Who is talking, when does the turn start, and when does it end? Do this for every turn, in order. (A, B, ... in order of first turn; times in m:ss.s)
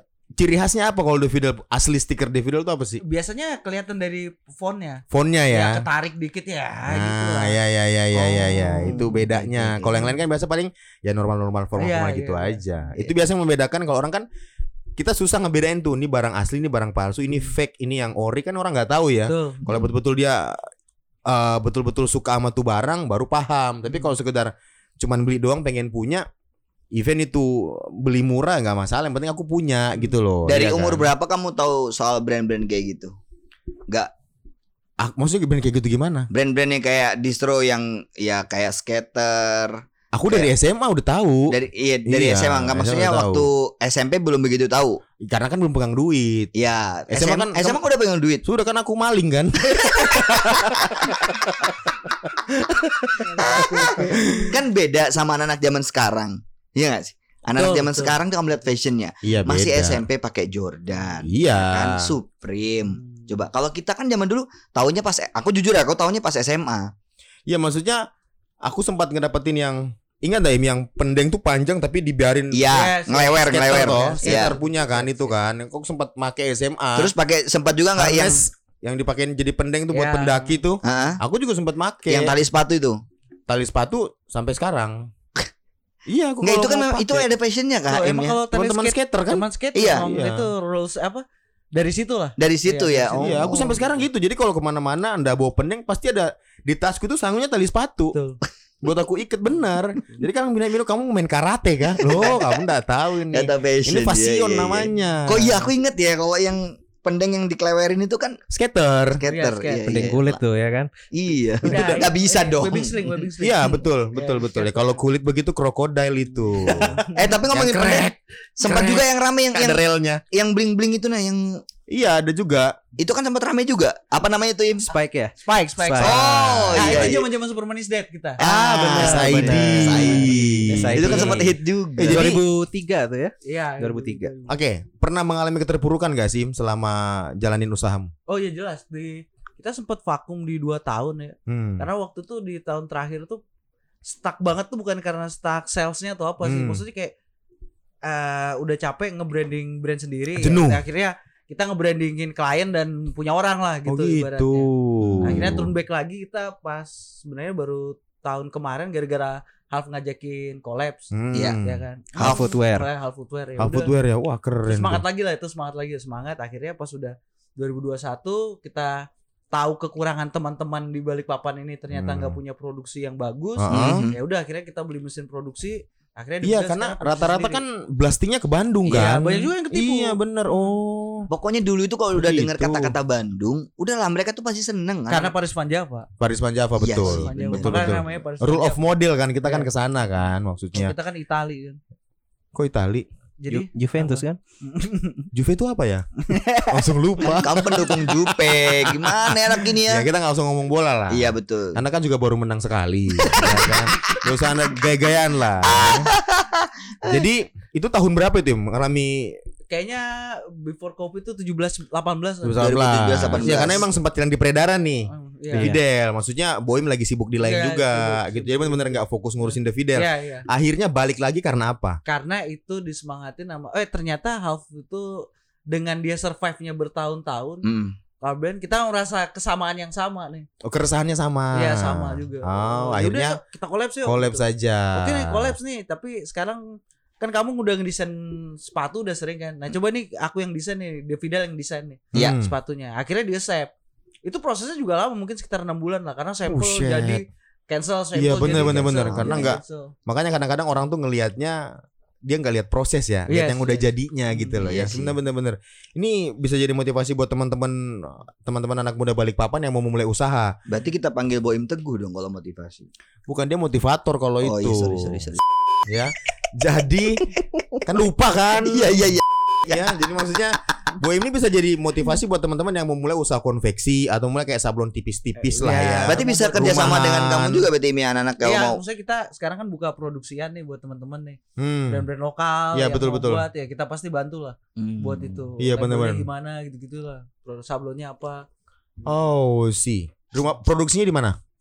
0:00.4-0:03.0 A
0:03.0-0:07.6 B
0:05.1-0:05.8 A
0:06.9-0:14.2 A
0:08.1-0:09.2 B
0:08.8-0:10.1 C
0:11.8-0:12.9 B
0:15.0-0:20.6 A
0:19.3-0:19.7 B
0:21.3-0:26.3 A
0:26.9-0:31.1 A
0:30.5-0:33.1 C
0:35.0-0:36.3 A
0:36.3-0:40.5 C
0:40.1-0:43.5 A
0:41.5-0:45.0 C
0:45.2-0:46.5 A
0:46.6-0:48.4 C
0:47.1-0:47.8 A
0:48.4-0:51.4 A
0:52.6-0:54.5 A
0:53.2-0:54.5 B
0:53.4-1:06.9 C
0:57.6-0:58.2 B
0:59.2-1:00.0 A
1:01.2-1:02.1 A
1:03.0-1:03.3 B
1:07.5-1:08.0 A
1:08.6-1:17.1 A
1:12.5-1:14.6 C
1:12.7-1:15.3 B
1:17.0-1:18.4 C
1:18.0-1:22.4 A
1:19.9-1:20.6 B
1:20.8-1:21.2 C
1:22.1-1:23.0 C
1:23.5-1:25.1 A
1:26.1-1:27.3 A
1:26.4-1:28.4 C
1:27.9-1:33.8 B
1:28.5-1:29.5 A
1:29.7-1:30.1 C
1:30.0-1:30.5 A
1:32.4-1:33.8 C
1:33.1-1:38.2 A
1:38.1-1:38.4 B
1:38.8-1:45.7 A
1:42.0-1:42.6 C
1:43.3-1:48.4 C
1:48.5-1:49.2 A
1:49.1-1:50.4 C
1:49.3-1:50.1 B
1:49.9-1:50.9 D
1:51.1-1:53.3 C
1:51.6-1:55.0 B
1:51.7-1:52.0 A
1:53.4-2:00.2 A
1:56.6-1:57.3 B
1:56.7-2:01.6 C
2:01.9-2:02.8 A
2:03.0-2:04.9 C
2:04.9-2:06.7 D
2:05.4-2:08.4 B
2:06.0-2:07.3 C
2:06.3-2:07.1 A
2:08.4-2:12.4 C
2:08.4-2:12.4 A
2:08.7-2:14.3 D
2:13.4-2:14.5 B
2:14.5-2:18.1 A
2:18.3-2:23.4 B
2:21.5-2:21.9 A
2:24.1-2:27.1 B
2:26.4-2:26.8 A
2:28.0-2:34.7 B
2:30.4-2:30.8 A
2:33.9-2:35.7 A
2:35.1-2:35.5 C
2:35.2-2:43.9 B
2:41.1-2:42.3 A
2:41.3-2:41.6 C
2:42.2-2:42.9 D
2:43.6-2:45.0 A
2:44.7-2:57.6 B
2:51.9-2:52.4 A
2:53.6-2:54.1 A
2:53.7-2:54.2 C
2:56.4-3:01.3 A
2:58.9-3:00.7 B
3:01.3-3:05.3 C
3:02.1-3:02.9 A
3:05.1-3:06.1 B
3:06.2-3:10.9 A
3:06.8-3:08.0 C
3:07.0-3:08.8 B
3:09.4-3:09.7 B
3:10.7-3:11.8 B
3:12.5-3:13.1 A
3:13.4-3:15.3 B
3:13.5-3:14.4 D
3:15.3-3:16.1 A
3:16.2-3:18.1 B
3:16.7-3:18.0 A
3:17.4-3:20.1 C
3:19.8-3:26.1 A
3:21.1-3:21.8 C
3:23.2-3:24.2 C
3:25.6-3:27.2 C
3:27.0-3:29.4 A
3:29.7-3:33.8 B
3:32.4-3:42.0 A
3:32.6-3:33.9 C
3:35.1-3:35.8 B
3:37.4-3:40.5 B
3:42.1-3:47.7 B
3:47.6-3:48.0 C
3:48.2-3:50.5 B
3:50.6-3:53.4 A
3:51.5-3:54.4 B
3:54.0-3:55.6 A
3:54.9-4:03.7 B
4:02.1-4:02.5 A
4:04.2-4:09.9 B
4:06.5-4:07.2 A
4:08.1-4:11.7 A
4:08.5-4:09.6 C
4:12.2-4:20.6 A
4:13.3-4:14.7 B
4:14.6-4:15.2 C
4:20.7-4:22.9 C
4:23.3-4:25.3 A
4:24.4-4:25.4 C
4:25.9-4:27.3 A
4:27.8-4:29.1 A
4:28.5-4:29.9 C
4:29.7-4:37.7 A
4:35.4-4:37.0 B
4:36.0-4:38.8 C
4:38.4-4:48.5 B
4:41.6-4:42.1 A
4:42.7-4:43.4 A
4:44.8-4:45.5 C
4:45.6-4:46.3 A
4:49.0-4:51.4 A